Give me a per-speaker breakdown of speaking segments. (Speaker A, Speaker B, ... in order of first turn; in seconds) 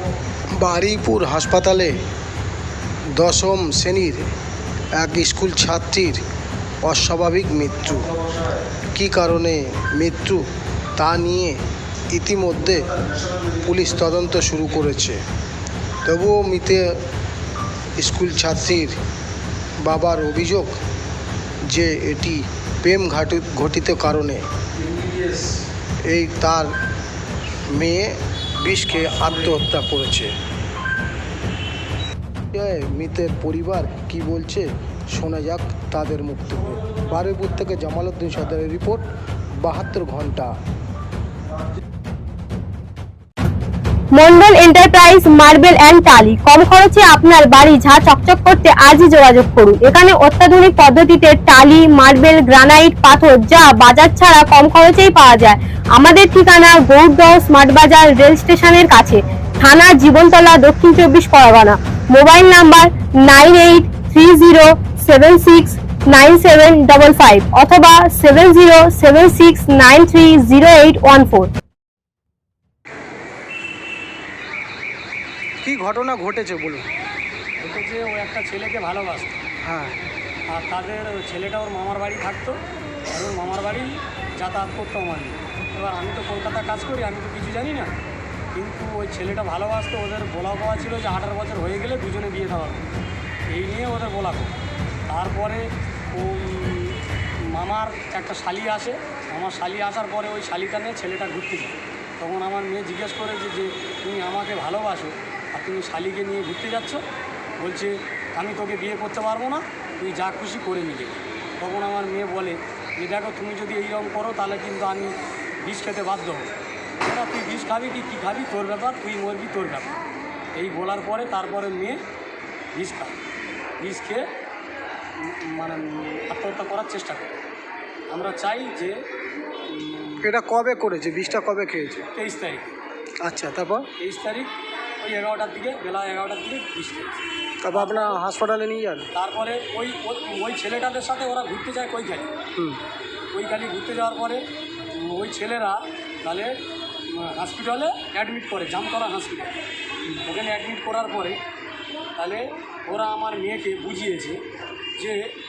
Speaker A: 0.6-2.0, 3.1-4.3, 5.0-6.2, 6.8-8.2, 8.9-10.4, 11.0-11.6, 12.1-13.0, 13.5-15.2, 16.1-17.0, 18.0-19.0, 19.8-20.8, 21.6-25.5, 26.0-26.7, 27.7-30.3, 32.5-39.1, 39.6-40.5, 75.6-76.8, 79.6-80.0, 130.2-132.1, 133.2-133.9, 137.6-139.1
Speaker B: 44.1-71.5
Speaker C: 77.6-79.3, 80.5-82.6, 83.1-87.9, 88.5-92.9, 93.5-94.5, 95.1-97.0, 97.5-107.0, 107.6-116.5, 117.0-120.0, 120.5-122.0, 122.7-123.2, 123.8-124.2, 125.2-127.3, 128.1-129.0, 129.7-130.3, 132.1-132.7, 134.0-138.2, 139.2-142.3, 143.3-144.4, 144.9-146.6, 147.1-149.6, 150.2-151.4, 152.2-154.4